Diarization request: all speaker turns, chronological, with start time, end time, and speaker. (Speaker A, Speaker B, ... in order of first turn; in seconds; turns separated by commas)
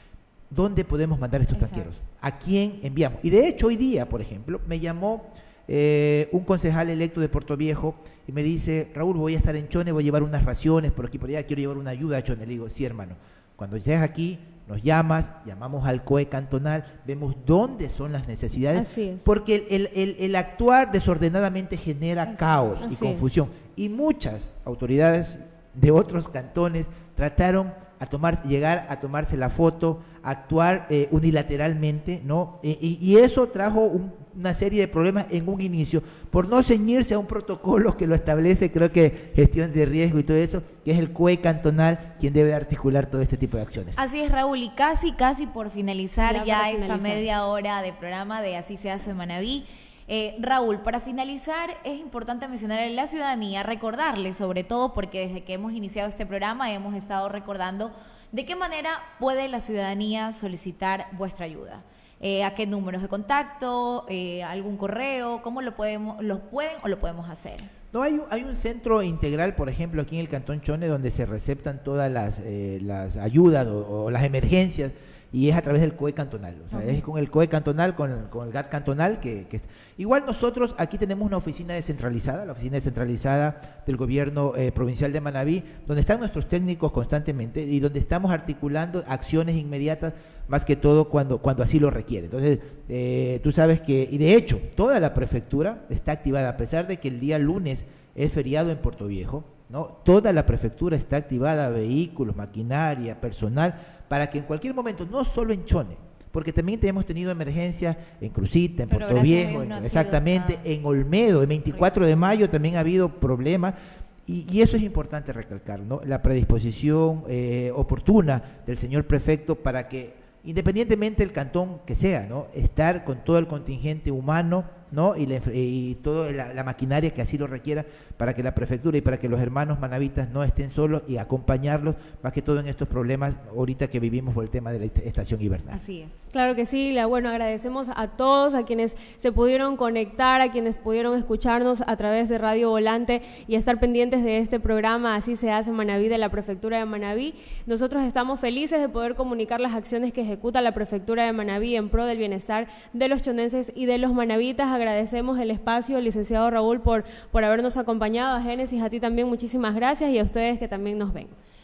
Speaker A: 0.5-44.0, Speaker B: 1.5-1.9, Speaker C: 18.7-19.2, Speaker C: 22.8-23.3, Speaker B: 44.0-67.7, Speaker C: 46.2-47.2, Speaker A: 67.9-113.7, Speaker B: 108.9-110.6, Speaker A: 114.2-135.8, Speaker B: 135.7-136.2, Speaker C: 136.3-161.3